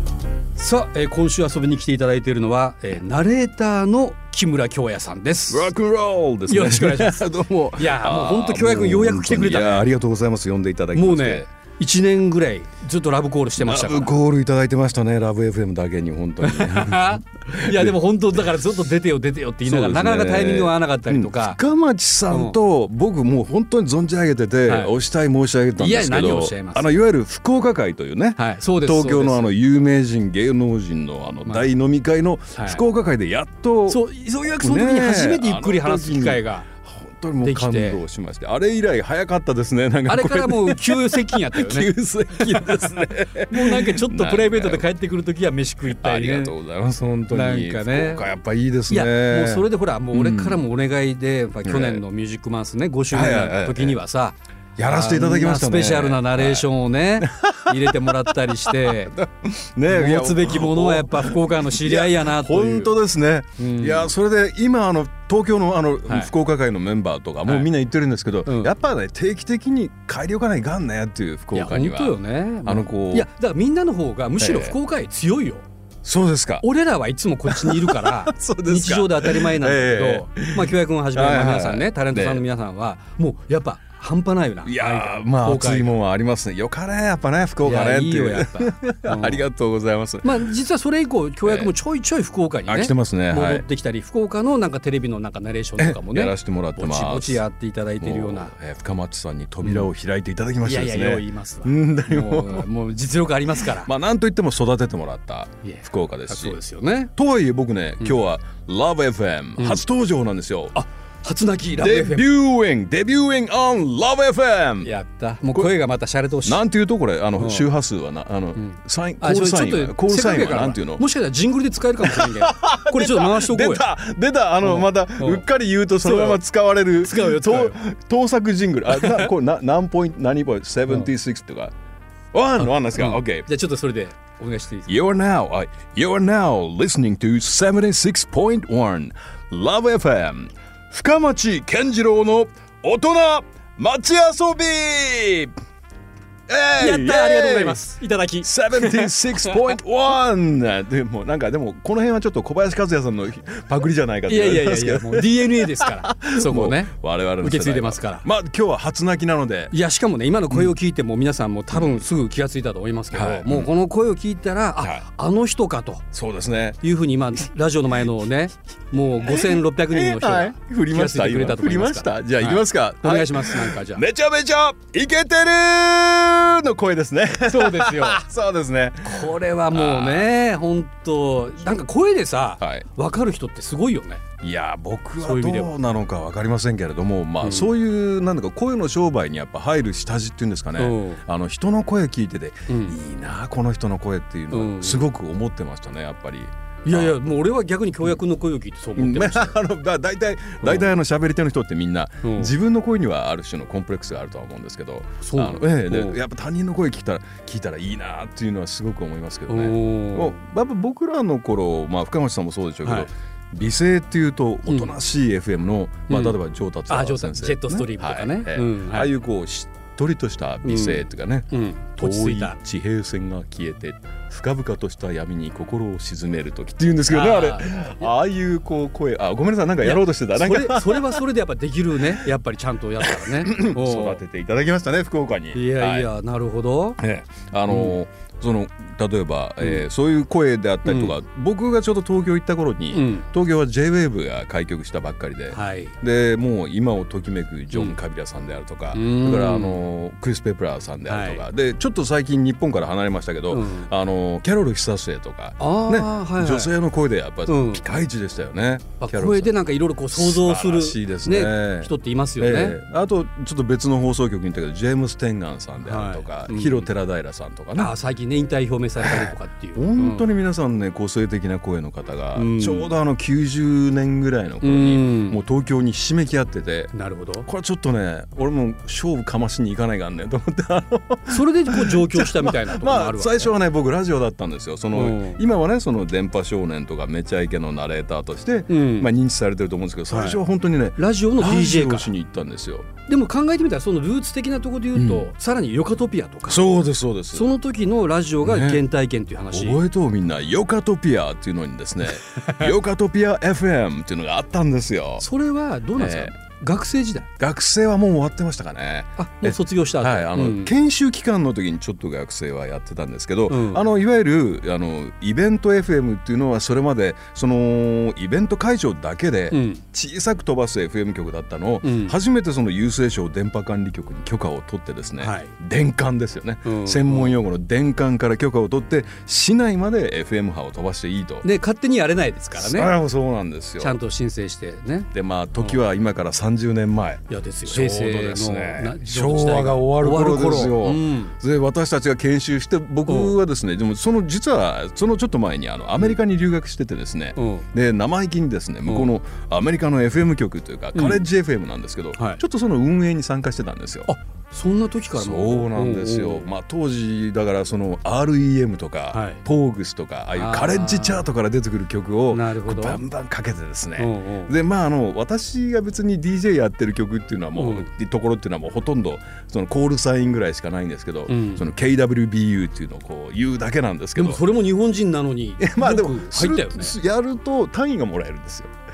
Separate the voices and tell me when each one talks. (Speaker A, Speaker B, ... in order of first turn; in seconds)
Speaker A: 0.6-5.7, 6.5-7.2, 7.8-9.9, 10.9-14.2, 16.4-21.6, 22.3-22.6, 24.6-24.9, 25.8-27.0, 28.4-29.5, 31.4-31.7, 32.5-32.8, 33.9-36.7, 37.4-38.0, 40.1-46.5, 47.3-48.3, 48.9-59.1, 59.9-62.9, 63.6-64.1, 67.4-67.7, 68.5-68.7, 71.5-75.6, 76.6-85.9, 87.6-89.4, 90.2-98.5, 100.6-103.9, 105.6-107.1, 109.6-109.8, 110.7-112.3, 114.8-116.6, 117.4-117.7, 118.5-123.8, 124.6-125.4, 126.0-126.4, 127.0-127.8, 128.9-129.3, 132.6-134.9, 146.8-149.7, 154.3-158.2, 159.7-166.1, 166.8-174.0, 177.5-178.2, 179.0-184.2, 185.2-185.7, 187.4-187.7, 190.8-191.2, 192.7-192.9, 194.5-195.1, 196.8-199.6, 200.6-200.9, 202.2-202.5, 205.2-206.2, 209.5-210.3, 212.8-213.1, 214.7-214.9, 216.1-216.4, 216.9-219.1, 220.6-222.6, 227.1-227.9, 229.8-234.2, 235.5-237.0, 237.7-237.9, 240.8-241.1, 242.9-243.3, 245.5-245.9, 247.7-248.0, 248.9-249.8, 251.1-251.4, 253.5-253.9, 255.6-256.7, 257.5-257.8, 259.0-262.8, 265.8-266.9, 267.8-270.2, 272.3-272.9, 274.6-275.4, 276.9-277.5, 281.3-283.5, 284.9-285.4, 288.7-289.1, 290.1-290.4, 291.0-292.1, 293.1-296.7, 297.3-299.8, 302.3-302.6, 305.2-307.3, 309.2-310.7, 313.5-313.8, 319.5-319.8, 321.8-322.1, 325.2-325.5, 326.6-327.4, 331.4-332.9, 333.8-335.8, 337.3-341.4, 343.1-343.4, 347.4-347.7, 350.9-351.2, 354.1-356.4, 359.1-359.4, 360.3-361.2, 362.3-363.0, 364.0-364.5, 367.6-367.9, 371.3-371.6, 374.1-376.9
Speaker B: 5.5-11.5, 13.6-18.0, 19.6-34.0, 34.6-44.9, 45.9-50.6, 51.6-52.0, 53.1-54.0, 54.8-73.3, 74.4-74.8, 76.0-76.6, 77.5-82.4, 84.6-90.4, 91.4-91.7, 92.7-93.6, 95.8-97.4, 98.0-102.7, 103.7-106.6, 107.1-110.7, 111.8-114.9, 116.4-121.0, 122.0-131.7, 132.3-133.5, 134.9-145.5, 146.5-147.9, 148.4-159.7, 163.1-163.7, 166.1-166.8, 169.2-180.3, 182.6-182.8, 184.4-197.1, 199.0-231.2, 233.0-236.1, 237.0-259.5, 260.1-267.9, 269.0-276.9, 277.4-292.9, 294.9-295.3, 296.4-297.5, 298.4-298.8, 299.5-305.2, 305.9-306.3, 307.4-331.5, 332.5-334.0, 335.1-354.1, 355.1-374.4, 375.6-378.7